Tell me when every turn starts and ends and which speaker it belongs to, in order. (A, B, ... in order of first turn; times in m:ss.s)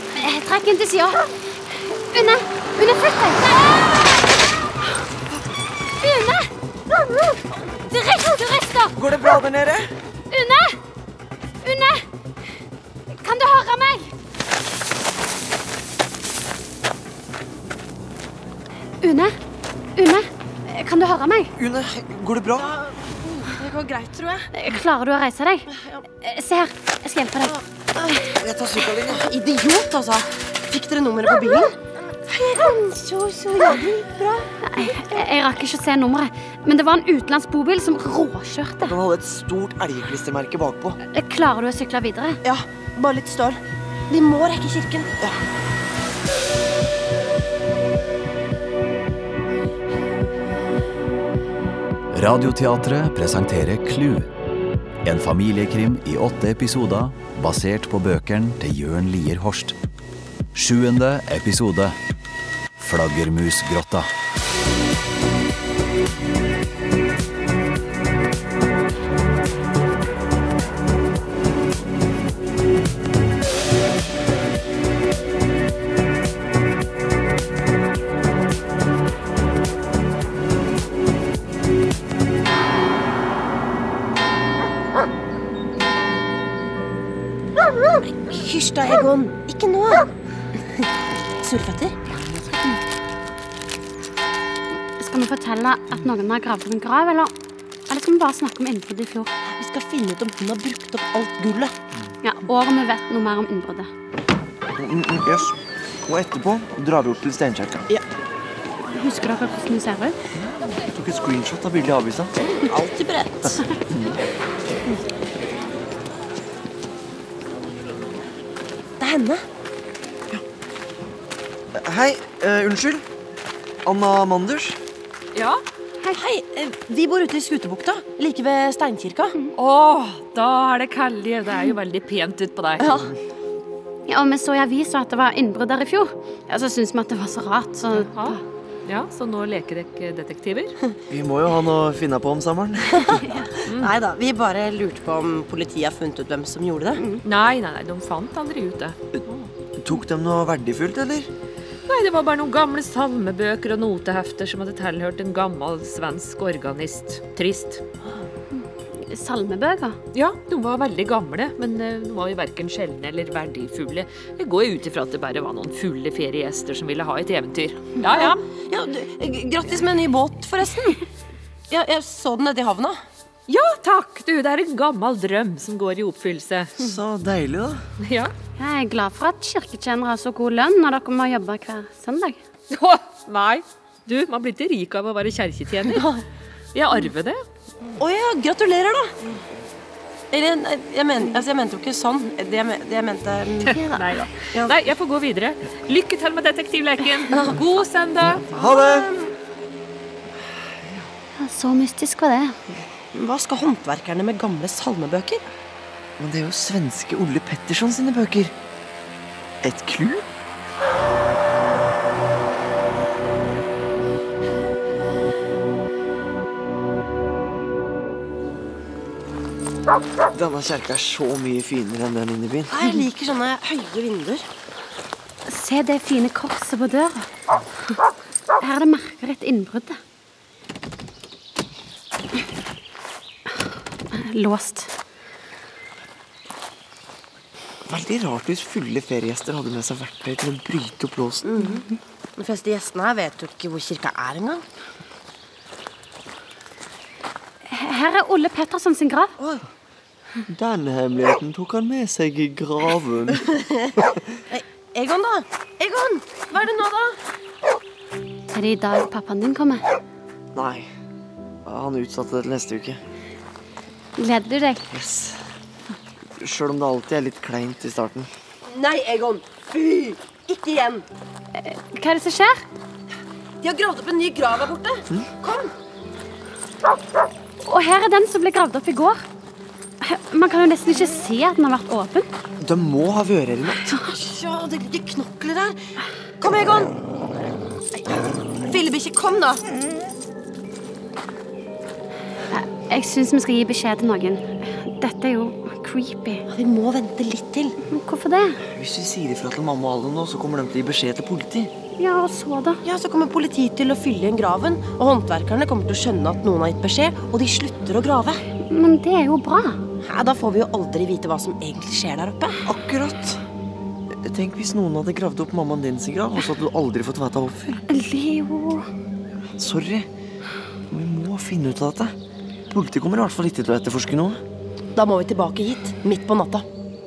0:00.2-0:04.2 A
0:06.0-0:06.5 A
0:07.7-0:09.0 A
0:08.9-0:09.9 B
0:10.3-0:10.8 A
0:11.6-0:12.0 A
0:13.2-0:14.1 A
0:19.0-0:19.4 A
0:20.0-0:21.5 A
0:21.6-0:22.7 B
0:22.6-0:24.5 C
0:24.5-0:25.7 A
0:25.7-0:26.0 C
0:26.2-0:27.5 A
0:27.4-0:28.3 C
0:28.3-0:29.3 B
0:29.0-0:35.3 C
0:34.6-0:38.9 A
0:38.8-0:41.0 B
0:41.1-0:42.4 A
0:42.4-0:45.1 C
0:52.1-0:54.3 D
0:55.0-0:59.7 D
1:00.5-1:02.0 D
1:02.8-1:04.1 D
1:27.7-1:30.9 C
1:31.4-1:32.0 C
1:35.0-1:37.3 A
1:37.9-1:39.3 A
1:39.5-1:41.7 C
1:42.2-1:43.9 A
1:44.7-1:47.9 B
1:48.9-1:50.2 A
1:50.3-1:52.3 B
1:52.5-1:53.6 C
1:53.9-1:54.2 B
1:59.0-1:59.4 C
2:01.7-2:03.0 B
2:03.8-2:04.8 B
2:05.3-2:05.6 E
2:06.1-2:09.4 C
2:09.6-2:13.0 E
2:12.8-2:13.1 C
2:14.1-2:18.4 A
2:17.9-2:20.7 E
2:21.1-2:23.2 B
2:23.0-2:27.0 C
2:23.6-2:23.9 E
2:27.2-2:29.0 E
2:29.8-2:31.3 B
2:31.9-2:37.8 E
2:39.0-2:40.0 A
2:40.1-2:48.4 E
2:48.0-2:51.0 C
2:51.7-2:53.0 C
2:53.5-2:56.7 E
2:56.8-2:57.8 B
2:58.0-2:58.3 E
2:58.6-3:02.4 A
3:02.7-3:06.0 E
3:05.9-3:06.2 C
3:06.7-3:07.4 E
3:08.0-3:09.2 C
3:10.3-3:14.0 C
3:13.7-3:18.4 E
3:18.4-3:19.1 B
3:18.5-3:19.3 C
3:21.4-3:22.6 A
3:23.1-3:25.4 C
3:26.2-3:28.5 B
3:29.6-3:30.3 B
3:40.3-3:42.8 B
3:42.7-3:44.4 C
3:45.5-3:47.3 A
3:48.6-3:50.0 A
3:54.1-3:54.9 A
3:57.9-4:01.5 B
4:01.4-4:04.6 C
4:07.7-4:09.3 A
4:09.4-4:09.6 C
4:10.5-4:14.3 B
4:13.5-4:13.9 C
4:14.5-4:17.2 C
4:18.5-4:19.8 A
4:20.5-4:20.9 B
4:21.6-4:23.0 B
4:24.2-4:24.8 A
4:24.9-4:25.4 B
4:26.4-4:28.3 B
4:28.7-4:31.0 C
4:31.6-4:32.6 A
4:33.6-4:35.7 C
4:37.6-4:39.2 A
4:40.0-4:42.3 A
4:42.6-4:43.9 B
4:44.0-4:45.8 C
4:46.4-4:47.0 C
4:48.0-4:49.6 C
4:52.5-4:56.4 A
4:56.5-4:57.8 C
4:57.9-4:58.6 A
4:58.6-5:01.7 B
5:02.0-5:02.8 A
5:02.8-5:08.4 C
5:08.7-5:09.8 A
5:10.0-5:12.6 C
5:12.6-5:13.4 B
5:14.1-5:17.8 B
5:17.9-5:18.9 A
5:19.6-5:20.1 B
5:20.9-5:22.1 B
5:22.7-5:24.4 B
5:24.9-5:26.6 C